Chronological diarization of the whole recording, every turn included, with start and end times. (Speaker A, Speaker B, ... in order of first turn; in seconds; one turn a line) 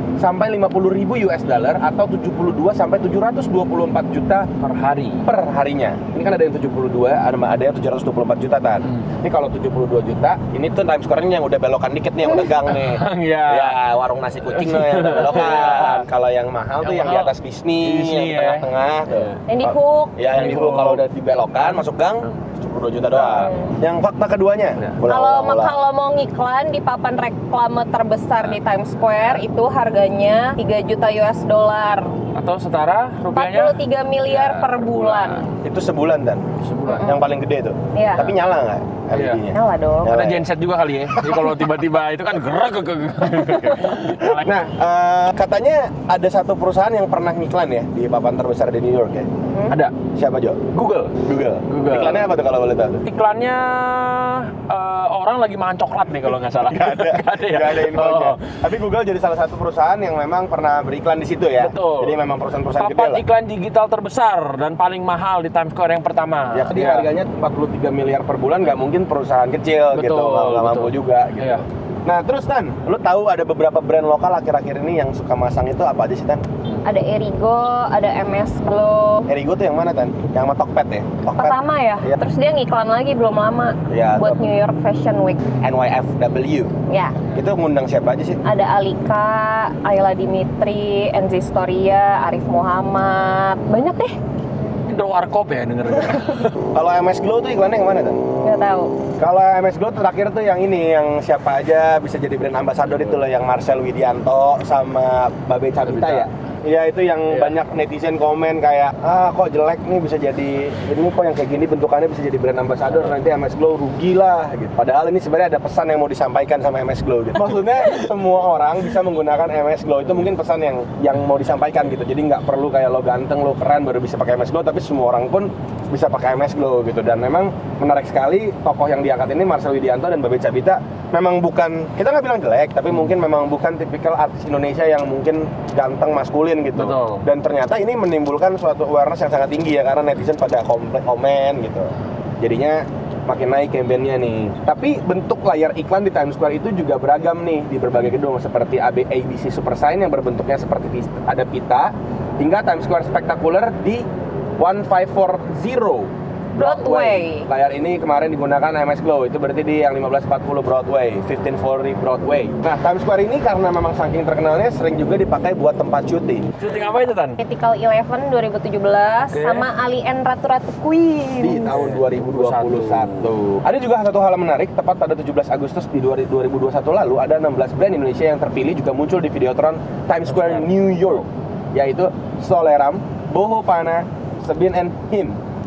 Speaker A: 0.2-4.5
Speaker B: 4.6-5.2
Speaker A: 5.2-25.8
Speaker B: 12.6-13.8
Speaker B: 14.5-16.1
Speaker B: 16.8-19.4
Speaker C: 19.5-20.2
Speaker B: 20.3-21.1
Speaker B: 21.6-21.8
Speaker B: 23.1-23.5
Speaker C: 23.4-23.7
Speaker C: 25.1-32.1
Speaker B: 32.3-35.5
Speaker C: 33.3-35.5
Speaker A: 35.6-40.4
Speaker B: 36.6-37.1
Speaker C: 36.9-37.2
Speaker C: 37.9-38.3
Speaker B: 39.1-39.4
Speaker C: 39.5-40.2
Speaker B: 40.0-44.5
Speaker A: 43.4-49.3
Speaker C: 49.5-49.8
Speaker B: 49.7-49.9
Speaker A: 50.1-50.7
Speaker B: 50.7-52.3
Speaker A: 51.2-53.0
Speaker B: 53.0-58.6
Speaker A: 56.6-63.2
Speaker B: 61.6-62.2
Speaker B: 62.8-67.1
Speaker A: 66.5-76.4
Speaker B: 69.9-71.6
Speaker C: 76.8-79.3
Speaker A: 79.3-82.2
Speaker C: 81.4-85.4
Speaker A: 83.9-84.5
Speaker A: 85.6-86.7
Speaker C: 86.9-87.2
Speaker A: 87.3-88.4
Speaker C: 88.4-94.2
Speaker B: 94.9-96.6
Speaker A: 96.6-98.2
Speaker C: 98.4-98.9
Speaker A: 99.2-154.1
Speaker B: 105.8-106.3
Speaker B: 107.3-107.6
Speaker B: 136.8-137.2
Speaker A: 154.6-166.4
Speaker C: 156.6-157.5
Speaker B: 166.6-167.4
Speaker C: 167.4-171.8
Speaker B: 169.3-169.7
Speaker A: 171.4-185.4
Speaker B: 171.7-173.3
Speaker B: 180.3-181.2